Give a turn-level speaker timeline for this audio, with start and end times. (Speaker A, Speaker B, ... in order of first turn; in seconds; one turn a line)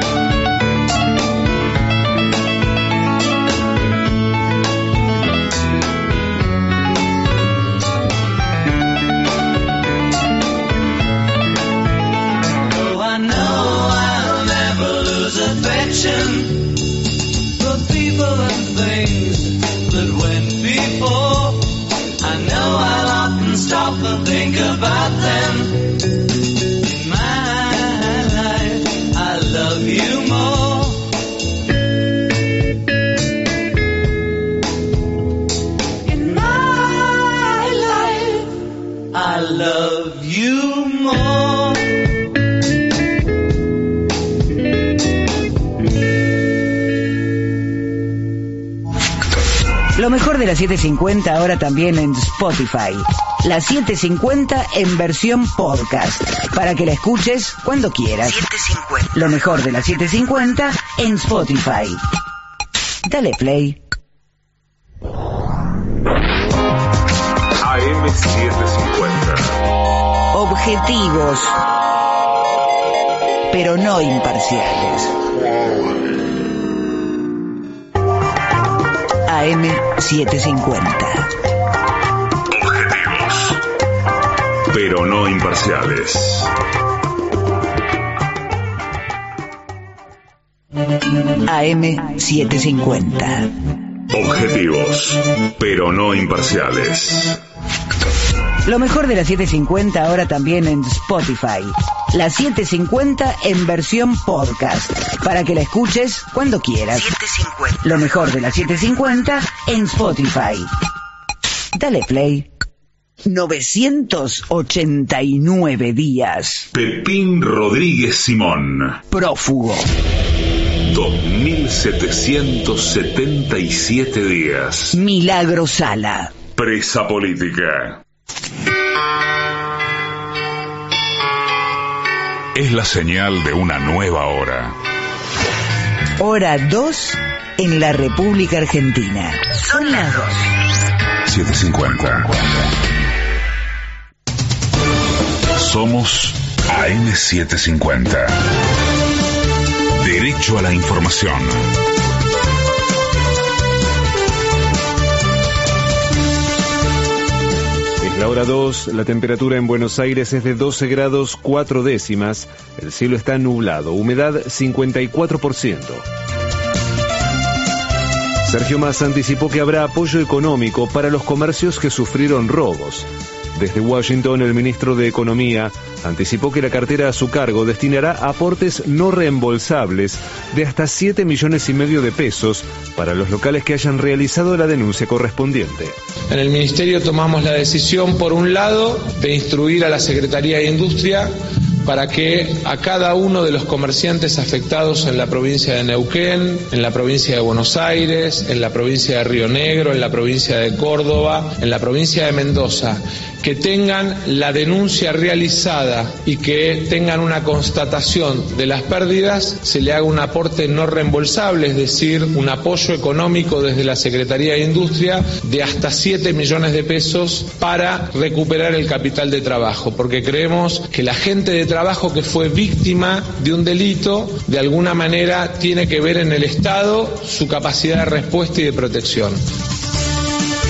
Speaker A: 12.7-16.8
Speaker A: 17.6-26.0
Speaker A: 26.8-31.1
Speaker A: 36.0-38.5
Speaker A: 39.1-41.9
Speaker B: 49.9-62.0
Speaker B: 63.0-63.8
Speaker C: 67.6-69.5
Speaker B: 70.3-71.6
Speaker B: 73.5-75.1
Speaker B: 79.2-81.3
Speaker C: 82.5-83.6
Speaker C: 84.7-86.5
Speaker B: 91.4-93.5
Speaker C: 94.1-97.4
Speaker B: 98.6-110.7
Speaker B: 111.7-112.5
Speaker B: 113.2-116.7
Speaker C: 116.7-119.0
Speaker B: 119.1-119.9
Speaker C: 120.8-125.0
Speaker B: 124.9-126.3
Speaker C: 126.5-128.0
Speaker C: 132.5-134.7
Speaker B: 136.2-140.5
Speaker C: 141.2-142.7
Speaker C: 145.5-148.4
Speaker C: 149.9-151.7
Speaker D: 158.0-166.1
Speaker D: 168.4-185.9
Speaker E: 186.3-191.3
Speaker E: 191.8-229.4